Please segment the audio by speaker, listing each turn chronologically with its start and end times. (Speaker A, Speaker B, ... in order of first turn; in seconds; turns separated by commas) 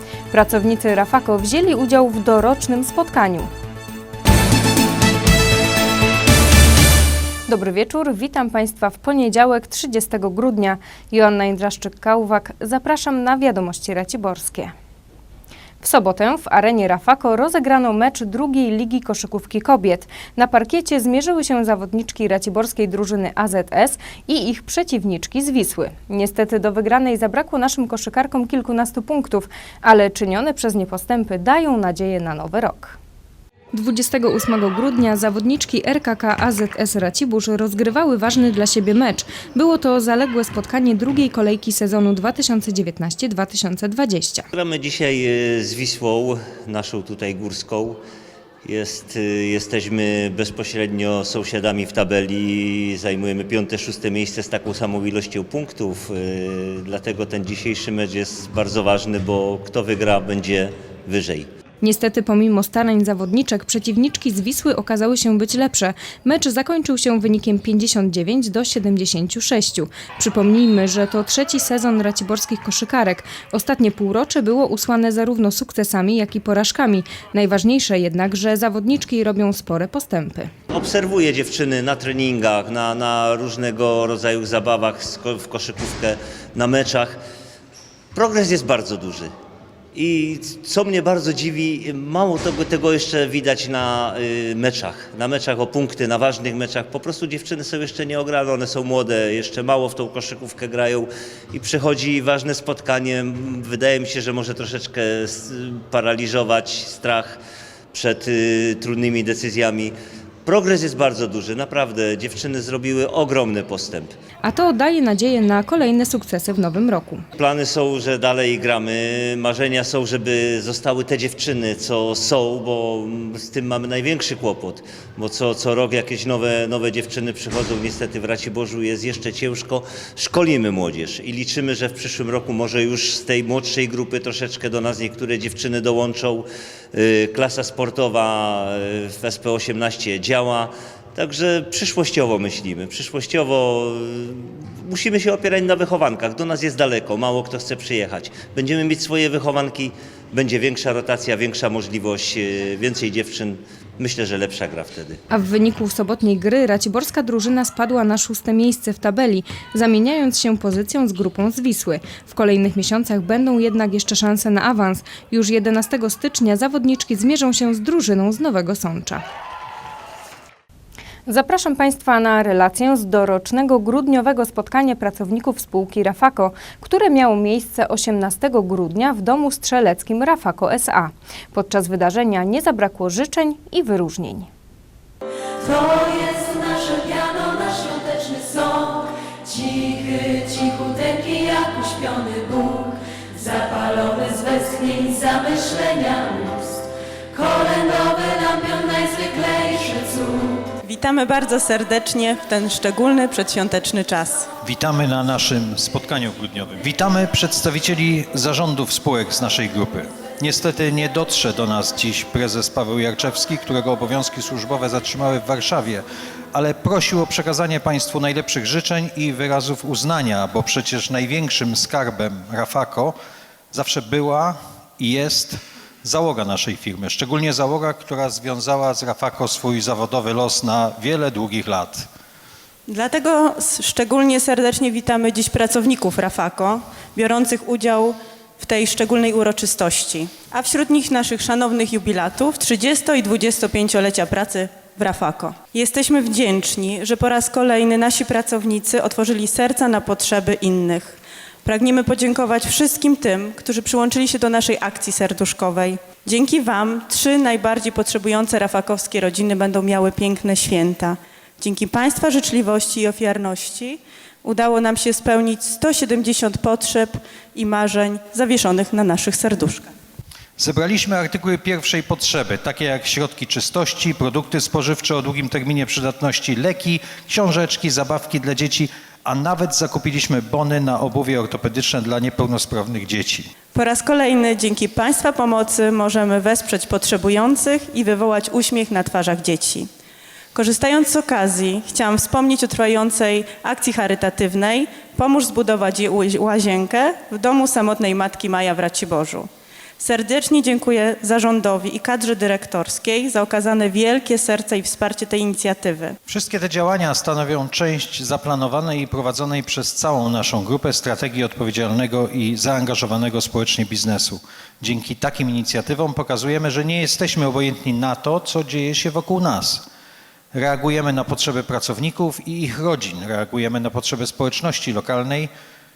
Speaker A: 0.3-3.5, Speaker A: 7.5-14.7, Speaker A: 15.8-33.0, Speaker A: 33.7-44.5, Speaker B: 44.5-48.0, Speaker B: 48.6-61.5, Speaker A: 61.8-80.5, Speaker B: 80.7-87.2, Speaker B: 88.1-89.3, Speaker B: 89.9-107.4, Speaker B: 107.9-114.1, Speaker A: 114.4-117.2, Speaker B: 117.4-155.2, Speaker A: 155.3-169.2, Speaker A: 171.2-184.5, Speaker C: 185.7-189.1, Speaker C: 189.6-192.9, Speaker C: 193.4-196.6, Speaker C: 197.3-200.6, Speaker D: 200.8-204.5, Speaker E: 204.6-223.2, Speaker E: 223.7-232.1, Speaker D: 232.9-269.9, Speaker E: 270.6-283.5, Speaker D: 283.7-289.9, Speaker D: 290.6-299.5, Speaker D: 300.0-306.1, Speaker E: 306.3-319.9, Speaker E: 320.5-325.5